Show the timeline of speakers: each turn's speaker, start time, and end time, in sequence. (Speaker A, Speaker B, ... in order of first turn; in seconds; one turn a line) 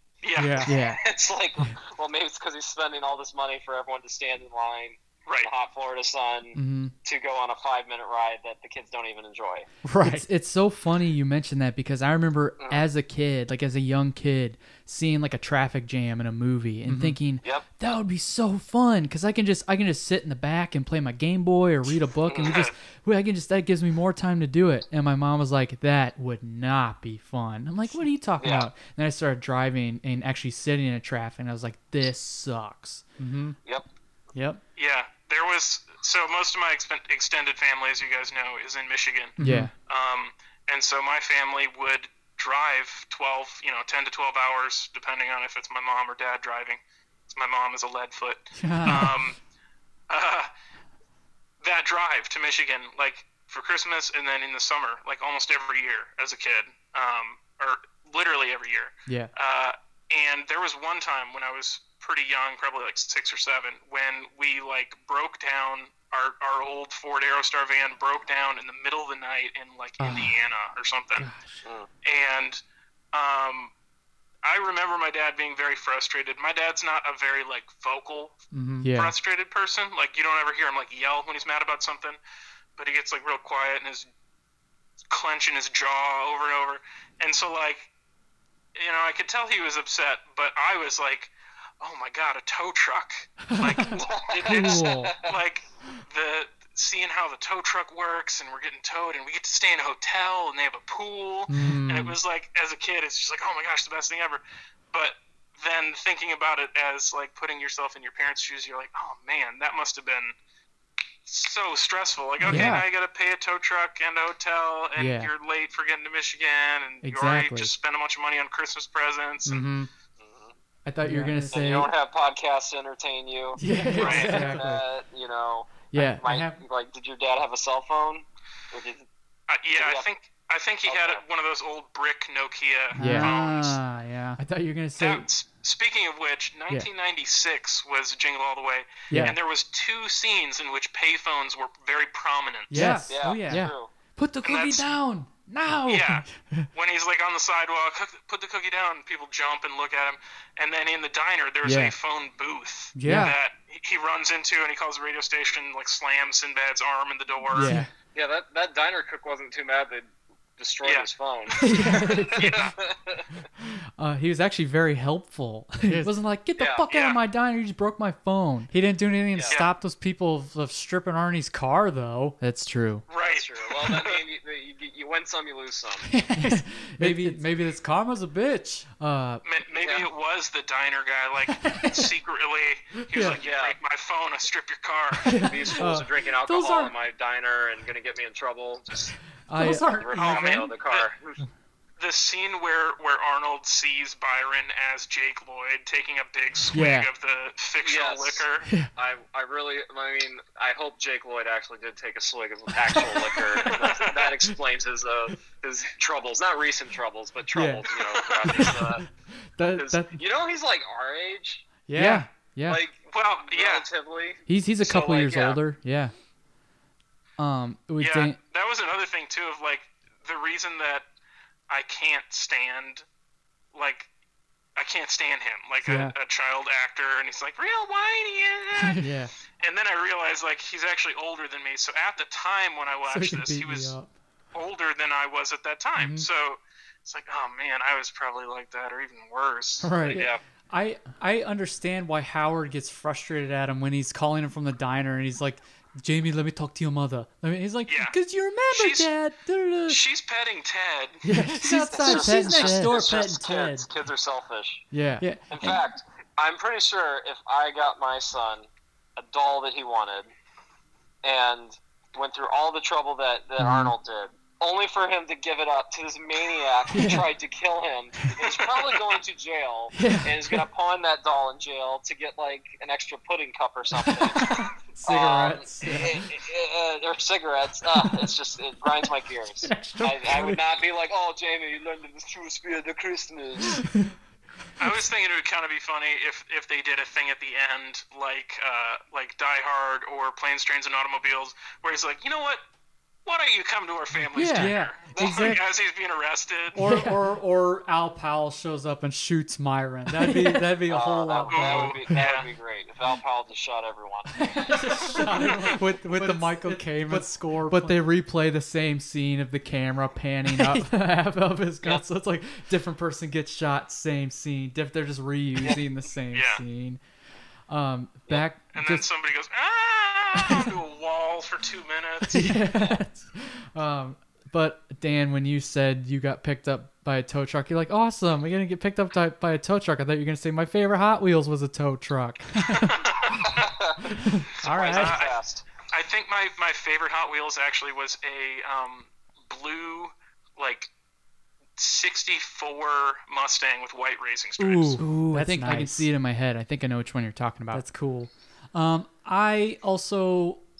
Speaker A: 0.2-0.7
Speaker B: 0.4-0.8
Speaker C: 0.7-9.7
Speaker D: 0.7-1.0
Speaker D: 6.5-6.9
Speaker B: 9.8-10.3
Speaker D: 10.0-33.0
Speaker B: 16.8-17.2
Speaker C: 22.3-22.6
Speaker A: 22.4-22.7
Speaker C: 28.4-28.7
Speaker B: 33.2-33.6
Speaker B: 34.3-34.6
Speaker A: 34.8-49.4
Speaker B: 39.4-39.7
Speaker D: 39.4-39.7
Speaker B: 48.6-49.1
Speaker A: 50.1-50.5
Speaker A: 51.6-71.3
Speaker D: 70.0-70.3
Speaker D: 71.2-71.6
Speaker A: 72.0-72.6
Speaker A: 73.1-73.7
Speaker A: 74.4-78.4
Speaker B: 78.5-78.9
Speaker D: 78.8-79.1
Speaker A: 78.9-82.2
Speaker A: 82.8-84.1
Speaker A: 85.1-87.9
Speaker A: 88.8-104.4
Speaker D: 93.5-95.2
Speaker C: 94.0-95.3
Speaker B: 101.5-102.1
Speaker A: 104.9-110.3
Speaker A: 111.3-119.7
Speaker D: 112.4-112.8
Speaker B: 112.4-112.9
Speaker D: 115.0-115.3
Speaker D: 117.0-117.7
Speaker B: 119.5-119.9
Speaker C: 120.2-120.5
Speaker D: 120.8-121.9
Speaker B: 121.0-121.5
Speaker C: 121.5-129.1
Speaker D: 123.6-124.8
Speaker B: 123.6-124.8
Speaker A: 124.0-124.5
Speaker D: 125.9-126.5
Speaker A: 129.5-133.8
Speaker C: 129.7-130.1
Speaker C: 130.9-131.2
Speaker D: 132.9-133.3
Speaker B: 133.0-134.4
Speaker D: 134.4-135.3
Speaker A: 134.9-142.8
Speaker B: 139.1-139.4
Speaker D: 139.1-139.4
Speaker B: 142.7-143.7
Speaker D: 142.7-146.7
Speaker C: 143.1-143.9
Speaker A: 144.4-145.0
Speaker A: 145.9-157.8
Speaker D: 151.6-151.9
Speaker B: 152.9-153.3
Speaker D: 153.0-153.3
Speaker D: 157.5-157.9
Speaker C: 158.1-163.4
Speaker A: 160.8-162.8
Speaker D: 161.6-162.6
Speaker D: 163.6-168.7
Speaker B: 165.8-166.1
Speaker C: 166.6-166.8
Speaker A: 166.9-167.2
Speaker B: 168.7-172.4
Speaker D: 172.4-173.1
Speaker A: 173.1-174.2
Speaker C: 173.2-176.1
Speaker B: 176.1-178.9
Speaker D: 176.3-177.4
Speaker D: 179.0-179.4
Speaker A: 179.4-185.6
Speaker C: 179.7-180.1
Speaker D: 183.1-183.4
Speaker C: 183.3-183.8
Speaker D: 185.1-186.1
Speaker C: 185.4-191.4
Speaker B: 185.8-186.9
Speaker D: 189.5-190.6
Speaker B: 189.6-190.7
Speaker A: 190.1-191.1
Speaker A: 192.0-198.7
Speaker D: 196.7-197.1
Speaker C: 197.8-209.1
Speaker D: 198.6-198.9
Speaker A: 203.6-204.5
Speaker D: 207.5-210.2
Speaker C: 209.7-211.6
Speaker B: 211.9-212.3
Speaker D: 211.9-212.8
Speaker C: 212.7-215.6
Speaker A: 213.1-213.9
Speaker D: 214.5-216.1
Speaker D: 217.4-218.4
Speaker A: 218.0-221.1
Speaker A: 221.7-223.1
Speaker A: 223.7-224.1
Speaker A: 224.8-229.1
Speaker B: 225.8-226.1
Speaker D: 229.0-229.3
Speaker A: 229.6-233.9
Speaker B: 233.1-234.1
Speaker A: 234.5-239.9
Speaker B: 236.0-236.3
Speaker B: 239.8-250.0
Speaker C: 240.1-240.4
Speaker A: 247.9-248.2
Speaker A: 248.7-249.1
Speaker A: 249.9-251.2
Speaker D: 251.2-253.0
Speaker B: 251.2-253.9
Speaker C: 251.9-254.9
Speaker D: 254.9-255.3
Speaker B: 255.2-255.8
Speaker C: 255.5-260.3
Speaker C: 261.2-283.9
Speaker D: 263.6-263.9
Speaker D: 266.9-267.3
Speaker D: 268.3-268.6
Speaker D: 269.9-270.6
Speaker D: 274.1-276.2
Speaker B: 275.1-276.0
Speaker D: 279.6-280.6
Speaker A: 284.8-292.6
Speaker A: 293.3-296.8
Speaker D: 294.3-294.7
Speaker B: 294.5-295.6
Speaker C: 295.1-295.6
Speaker B: 296.7-302.1
Speaker D: 296.8-297.2
Speaker D: 300.1-300.8
Speaker C: 300.9-305.1
Speaker A: 301.5-302.5
Speaker B: 304.4-308.1
Speaker D: 304.6-317.0
Speaker B: 310.4-310.9
Speaker A: 316.3-316.6
Speaker D: 317.7-319.1
Speaker A: 318.3-322.4
Speaker D: 320.3-320.7
Speaker D: 322.3-333.1
Speaker A: 332.7-333.5
Speaker C: 333.1-335.7
Speaker D: 334.1-334.5
Speaker B: 334.6-335.2
Speaker A: 334.6-340.9
Speaker A: 341.8-345.0
Speaker B: 344.6-346.1
Speaker D: 345.0-347.8
Speaker B: 347.7-350.6